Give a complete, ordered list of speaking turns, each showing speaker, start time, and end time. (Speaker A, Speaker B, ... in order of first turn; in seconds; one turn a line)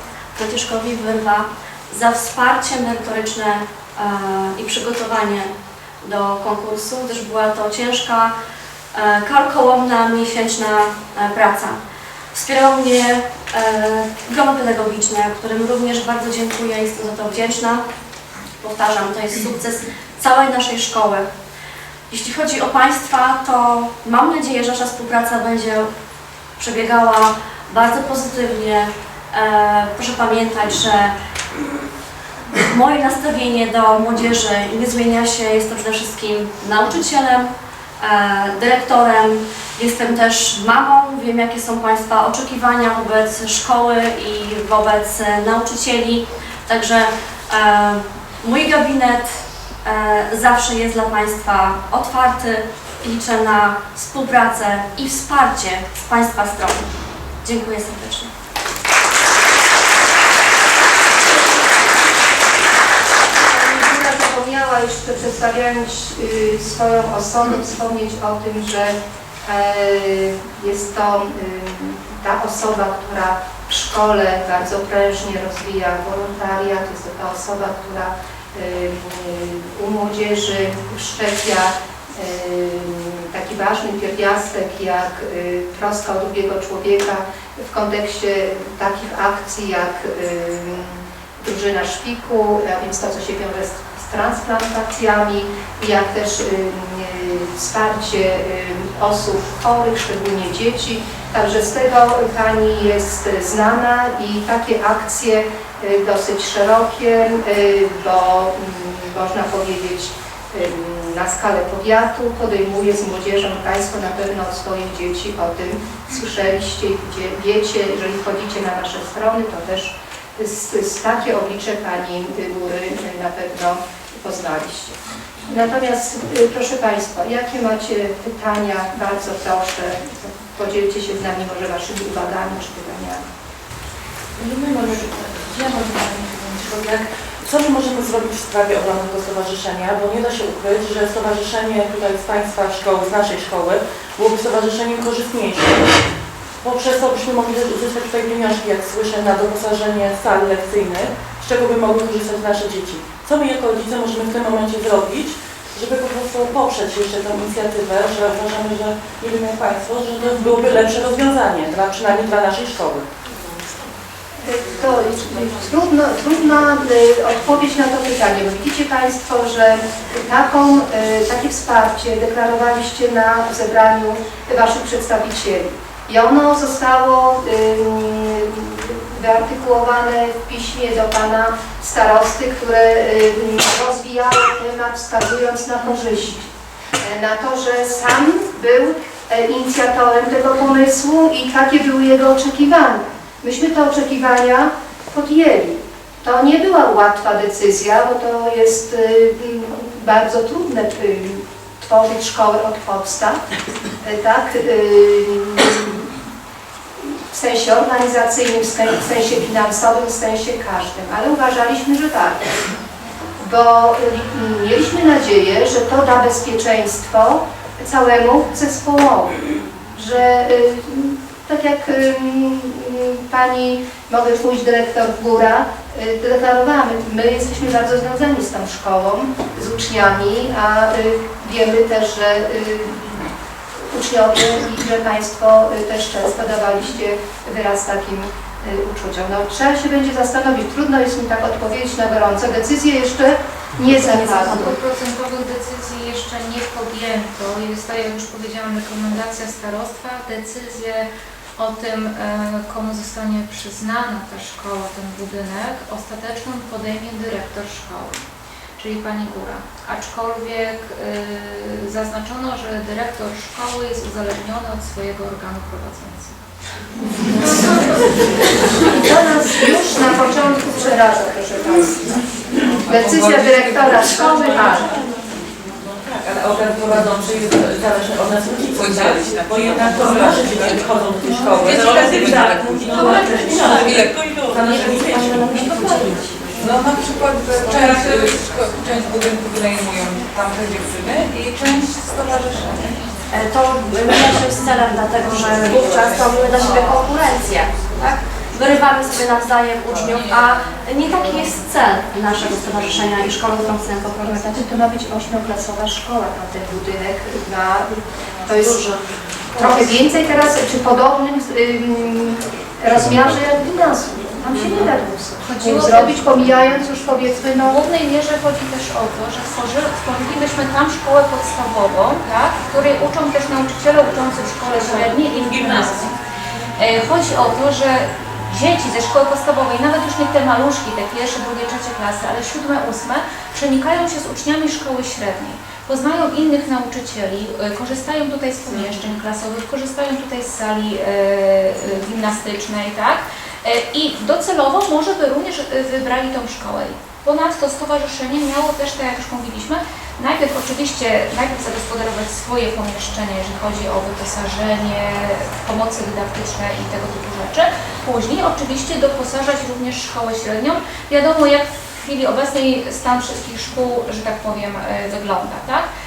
Speaker A: 0.3-5.5
Speaker A: 6.0-8.3
Speaker A: 8.9-11.8
Speaker A: 12.3-17.8
Speaker A: 18.6-21.3
Speaker A: 22.1-25.9
Speaker A: 26.6-31.1
Speaker A: 32.6-37.5
Speaker A: 38.0-56.9
Speaker A: 57.4-58.3
Speaker B: 63.4-133.2
Speaker C: 134.4-146.0
Speaker C: 146.6-163.1
Speaker B: 164.4-203.4
Speaker B: 204.0-206.1
Speaker B: 207.0-212.4
Speaker B: 213.4-244.7
Speaker A: 244.2-244.7
Speaker D: 244.3-258.2
Speaker D: 258.8-266.4
Speaker B: 268.9-272.2
Speaker E: 272.9-274.9
Speaker B: 272.9-274.9
Speaker C: 274.5-275.0
Speaker C: 275.7-285.9
Speaker E: 278.7-280.8
Speaker E: 281.5-284.1
Speaker A: 284.6-286.4
Speaker E: 285.6-286.0
Speaker E: 286.6-293.0
Speaker A: 293.3-304.7
Speaker B: 304.2-308.9
Speaker B: 309.5-317.8
Speaker D: 315.4-316.4
Speaker D: 317.6-326.1
Speaker C: 324.8-326.1
Speaker D: 326.8-365.9